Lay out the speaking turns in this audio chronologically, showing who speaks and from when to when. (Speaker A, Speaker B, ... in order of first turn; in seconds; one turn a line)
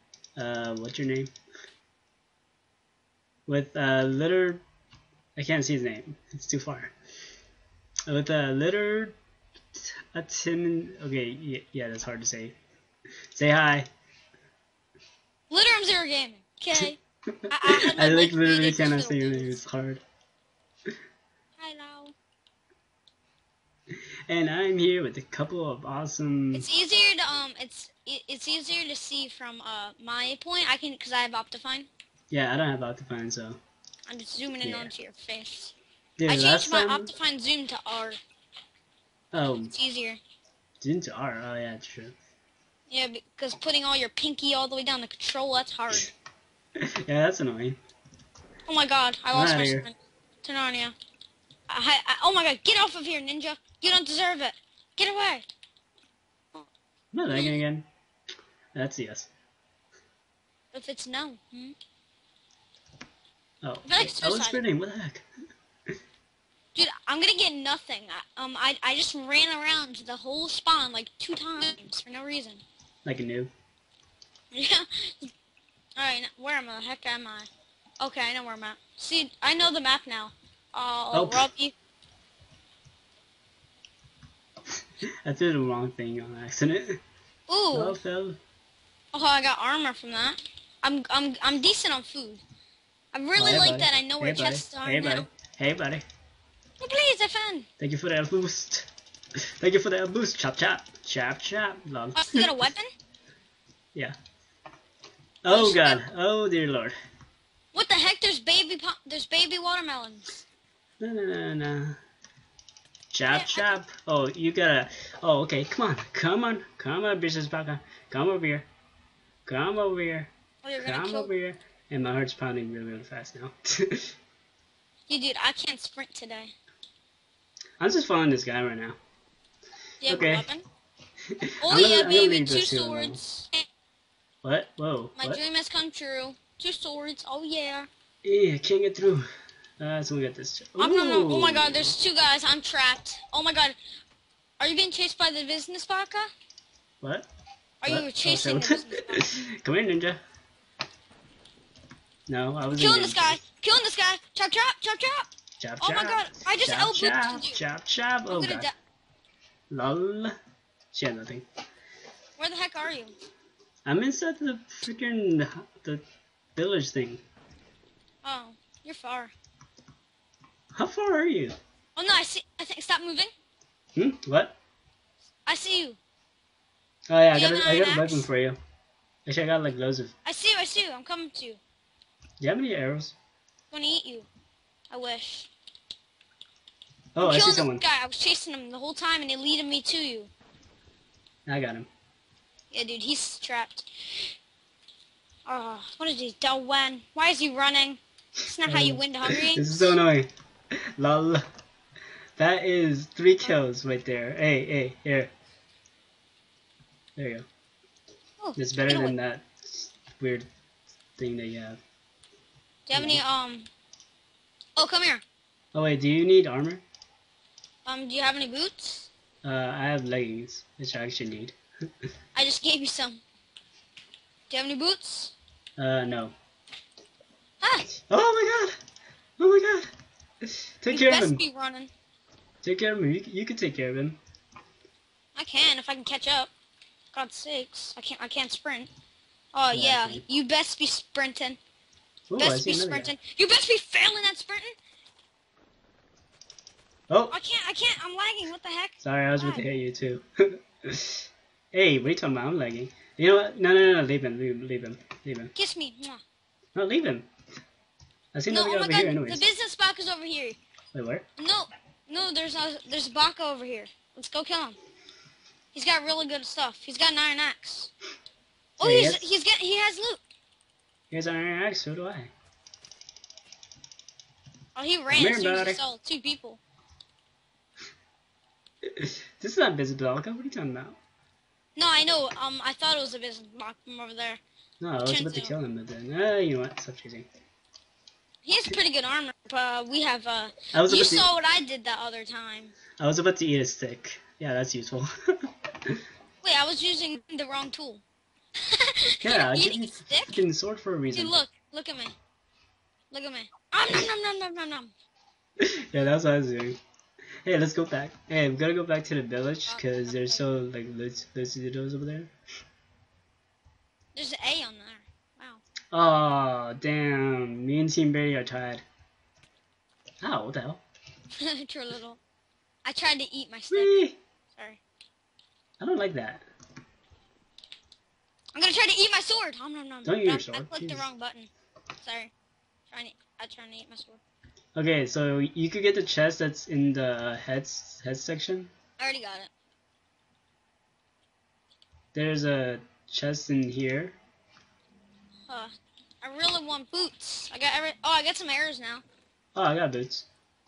Speaker A: 0.3-1.3
Speaker A: 3.5-4.6
Speaker A: 5.3-6.9
Speaker A: 8.1-9.2
Speaker A: 9.7-12.6
Speaker A: 13.3-13.9
Speaker B: 15.5-17.0
Speaker B: 17.5-19.6
Speaker A: 17.5-20.0
Speaker B: 21.6-22.1
Speaker A: 24.3-26.7
Speaker B: 26.5-31.9
Speaker A: 32.3-33.6
Speaker B: 34.1-35.7
Speaker A: 34.6-34.9
Speaker A: 36.2-37.1
Speaker B: 36.3-38.2
Speaker A: 39.3-39.7
Speaker B: 39.7-40.2
Speaker A: 40.8-42.1
Speaker B: 42.9-46.1
Speaker A: 46.8-47.8
Speaker B: 48.7-50.9
Speaker A: 49.3-49.9
Speaker B: 51.7-55.5
Speaker A: 57.1-57.9
Speaker B: 57.3-57.6
Speaker A: 58.7-59.3
Speaker B: 60.7-61.8
Speaker A: 63.6-65.2
Speaker B: 63.8-64.6
Speaker B: 66.7-72.6
Speaker A: 73.0-73.5
Speaker B: 74.5-75.3
Speaker B: 76.0-77.5
Speaker B: 78.0-81.7
Speaker A: 81.1-81.5
Speaker A: 85.2-87.0
Speaker B: 87.5-88.0
Speaker A: 87.7-88.4
Speaker B: 89.1-92.4
Speaker B: 93.1-95.3
Speaker A: 93.4-96.0
Speaker B: 96.8-97.7
Speaker A: 97.8-98.9
Speaker A: 99.6-102.6
Speaker B: 102.2-102.9
Speaker A: 105.4-106.9
Speaker B: 105.4-106.0
Speaker B: 107.7-110.4
Speaker A: 111.0-112.0
Speaker A: 113.1-118.7
Speaker B: 113.3-113.8
Speaker A: 119.5-120.3
Speaker B: 120.6-121.3
Speaker A: 120.8-124.1
Speaker B: 125.1-126.5
Speaker A: 127.8-129.0
Speaker B: 130.0-130.6
Speaker A: 130.1-130.5
Speaker B: 131.6-133.6
Speaker A: 131.6-133.2
Speaker A: 134.4-135.4
Speaker B: 135.2-137.9
Speaker A: 138.2-139.2
Speaker A: 139.8-141.9
Speaker B: 140.8-143.8
Speaker B: 144.6-146.3
Speaker A: 147.0-147.3
Speaker B: 147.8-149.3
Speaker A: 147.8-150.2
Speaker A: 152.3-153.4
Speaker B: 152.7-155.3
Speaker A: 155.6-158.7
Speaker B: 155.8-157.6
Speaker B: 158.3-158.7
Speaker A: 159.7-160.3
Speaker A: 160.9-161.4
Speaker B: 162.4-163.1
Speaker A: 163.8-166.0
Speaker A: 166.6-167.2
Speaker B: 168.2-169.3
Speaker A: 170.7-171.5
Speaker B: 171.9-173.3
Speaker A: 173.9-174.6
Speaker B: 175.4-176.0
Speaker A: 177.1-178.6
Speaker B: 177.3-178.2
Speaker A: 179.2-180.1
Speaker B: 180.2-181.6
Speaker A: 182.4-183.2
Speaker B: 183.7-184.3
Speaker B: 184.9-185.5
Speaker A: 187.1-187.8
Speaker B: 187.2-190.3
Speaker A: 191.5-191.9
Speaker B: 192.7-194.3
Speaker B: 195.5-200.0
Speaker A: 198.7-200.3
Speaker A: 201.0-201.4
Speaker A: 202.4-205.3
Speaker A: 207.2-207.5
Speaker B: 208.4-209.2
Speaker A: 208.6-210.5
Speaker A: 211.2-211.8
Speaker B: 212.9-213.7
Speaker A: 212.9-213.2
Speaker B: 214.8-215.2
Speaker A: 215.7-216.8
Speaker B: 217.8-219.1
Speaker A: 219.4-221.6
Speaker B: 222.3-223.2
Speaker B: 224.5-225.3
Speaker A: 225.8-226.3
Speaker B: 227.6-227.9
Speaker A: 228.1-228.8
Speaker A: 229.4-229.9
Speaker A: 230.4-231.4
Speaker B: 230.9-231.9
Speaker A: 232.6-234.2
Speaker B: 235.3-236.5
Speaker B: 237.1-238.9
Speaker B: 239.5-241.6
Speaker A: 239.7-240.2
Speaker A: 242.3-243.1
Speaker B: 242.4-244.7
Speaker A: 247.1-247.3
Speaker B: 247.3-249.7
Speaker A: 249.0-255.5
Speaker B: 255.5-256.2
Speaker A: 256.7-257.3
Speaker A: 258.3-259.5
Speaker B: 258.5-260.6
Speaker A: 260.9-261.2
Speaker B: 261.4-264.8
Speaker B: 265.7-267.9
Speaker A: 268.8-269.3
Speaker B: 268.8-270.2
Speaker A: 271.1-272.3
Speaker B: 274.8-276.6
Speaker A: 275.1-275.8
Speaker A: 278.9-281.0
Speaker B: 281.8-284.4
Speaker A: 284.8-287.3
Speaker B: 285.0-285.5
Speaker B: 288.4-292.8
Speaker A: 290.7-291.3
Speaker A: 293.0-295.1
Speaker B: 296.4-298.0
Speaker B: 298.6-300.4
Speaker A: 299.2-301.4
Speaker B: 301.1-302.1
Speaker B: 303.1-304.9
Speaker A: 305.6-306.8
Speaker A: 307.4-312.3
Speaker B: 309.7-310.4
Speaker B: 314.1-315.6
Speaker A: 315.9-318.8
Speaker A: 320.2-320.8
Speaker B: 321.4-322.2
Speaker B: 322.8-324.8
Speaker A: 323.7-324.2
Speaker A: 325.8-326.5
Speaker B: 328.5-331.5
Speaker A: 330.0-331.1
Speaker B: 332.0-332.3
Speaker B: 332.9-334.2
Speaker A: 334.8-338.7
Speaker B: 339.0-339.5
Speaker A: 342.1-344.2
Speaker B: 345.5-349.0
Speaker A: 349.5-350.3